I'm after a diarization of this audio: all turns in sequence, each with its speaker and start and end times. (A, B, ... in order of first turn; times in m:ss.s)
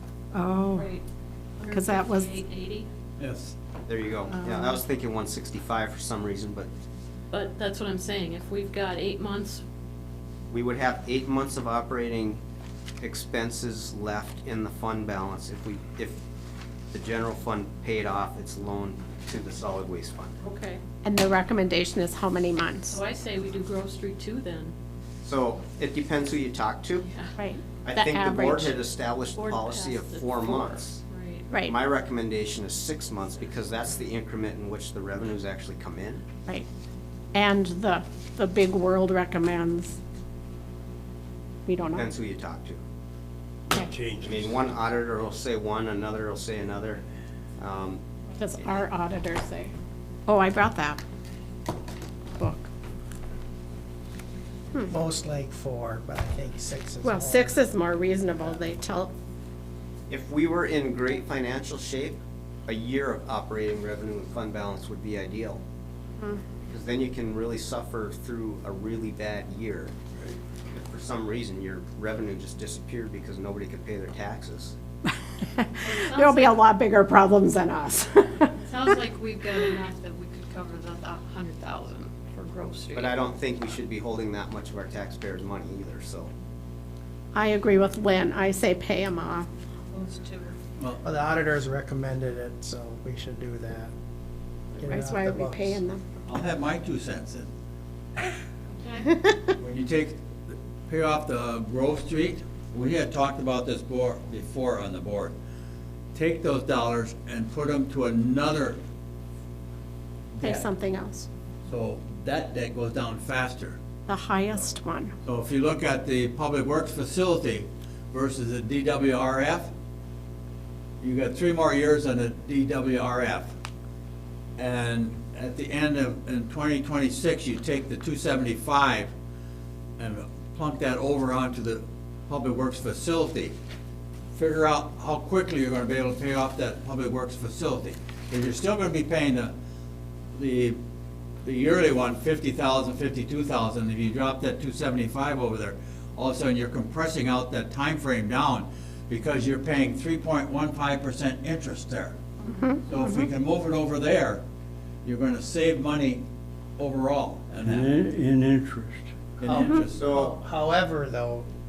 0:00.3-0:00.9 A
0:00.8-0:01.0 B
0:01.6-0:02.9 B
0:01.7-0:02.3 A
0:03.2-0:03.5 C
0:03.8-0:06.7 D
0:04.3-0:04.8 B
0:07.3-0:09.6 B
0:10.5-0:12.4 D
0:13.0-0:16.2 D
0:16.9-0:20.4 D
0:20.4-0:20.8 B
0:21.0-0:23.0 A
0:22.9-0:24.7 B
0:25.2-0:27.0 D
0:27.4-0:28.8 A
0:27.8-0:31.0 D
0:29.3-0:31.5 B
0:31.5-0:31.7 A
0:31.6-0:36.2 D
0:37.3-0:40.0 A
0:41.6-0:42.1 A
0:41.9-0:42.8 D
0:44.2-0:47.0 D
0:47.6-0:48.0 D
0:48.4-0:49.7 A
0:50.3-0:51.0 A
0:52.4-0:52.7 A
0:54.9-0:57.7 E
0:57.0-0:59.1 A
1:00.1-1:05.6 D
1:06.6-1:10.0 D
1:10.7-1:14.7 D
1:15.5-1:18.6 A
1:15.8-1:16.6 B
1:18.6-1:23.1 B
1:22.9-1:26.3 D
1:27.3-1:29.5 A
1:29.9-1:30.5 B
1:31.0-1:33.9 E
1:34.8-1:35.8 E
1:34.8-1:36.0 A
1:36.2-1:37.5 C
1:38.8-1:39.1 B
1:39.6-1:45.3 C
1:46.1-1:48.8 C
1:50.3-1:50.7 C
1:50.4-1:51.3 A
1:51.7-1:53.8 C
1:54.1-1:55.1 A
1:55.2-1:59.7 C
2:01.0-2:03.5 C
2:04.6-2:09.1 C
2:10.0-2:13.5 C
2:14.3-2:19.5 C
2:20.3-2:20.8 C
2:21.4-2:32.2 C
2:32.5-2:33.2 A
2:32.8-2:34.4 C
2:35.0-2:36.2 C
2:36.8-2:38.0 C
2:39.4-2:40.0 C
2:39.5-2:41.5 E
2:40.0-2:40.3 D